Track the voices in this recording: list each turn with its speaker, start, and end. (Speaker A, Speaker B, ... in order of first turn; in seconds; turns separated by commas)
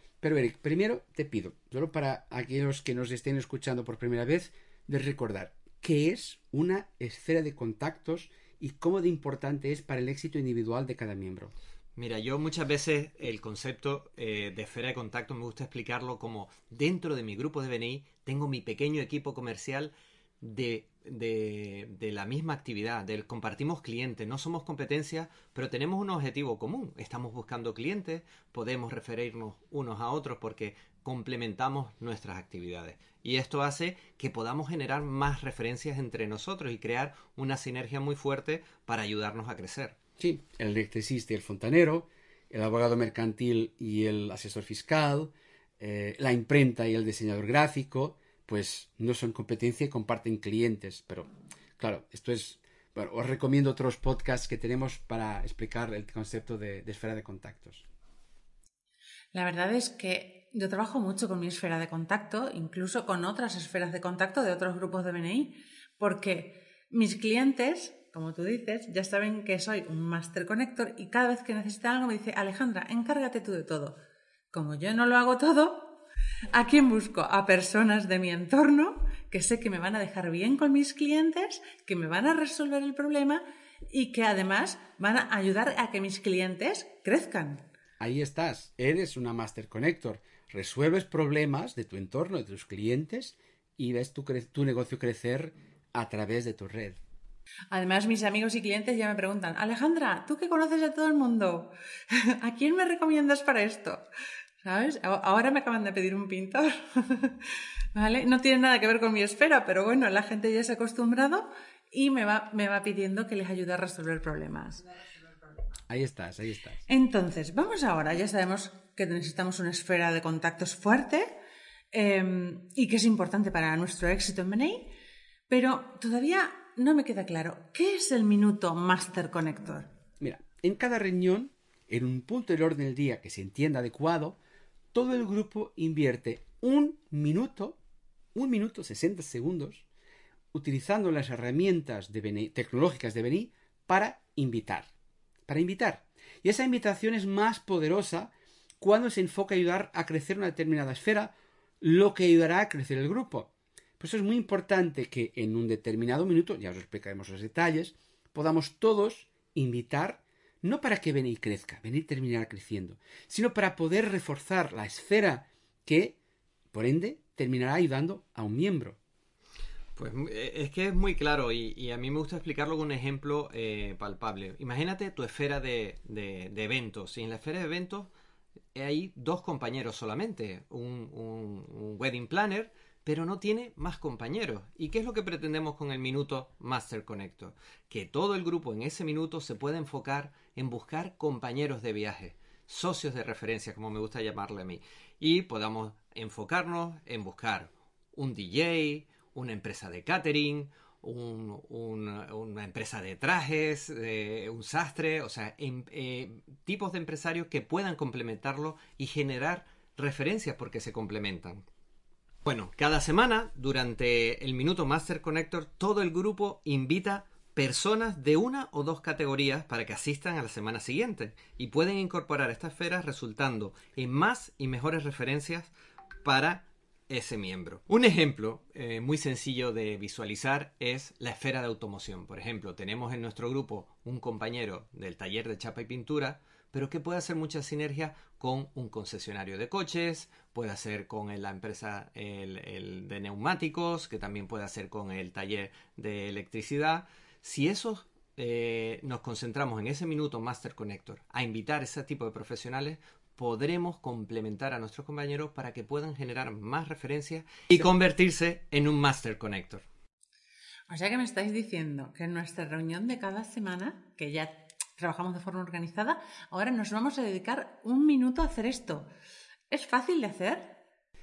Speaker A: 0.2-11.5, Speaker B: 11.9-40.0, Speaker A: 40.2-57.8, Speaker C: 59.3-74.0, Speaker C: 74.5-75.9, Speaker C: 76.5-87.7, Speaker A: 88.0-97.0, Speaker C: 97.7-104.0, Speaker C: 104.6-114.8, Speaker A: 115.9-116.8, Speaker C: 116.9-121.3, Speaker C: 121.9-124.9, Speaker C: 125.5-129.9, Speaker A: 130.2-134.4, Speaker A: 134.9-137.8, Speaker A: 138.3-139.8, Speaker A: 140.5-144.9, Speaker A: 145.5-166.2, Speaker A: 166.7-169.0, Speaker B: 170.0-178.1, Speaker B: 178.7-211.6, Speaker B: 212.4-225.7, Speaker B: 226.2-259.9, Speaker C: 260.9-269.1, Speaker C: 269.7-270.8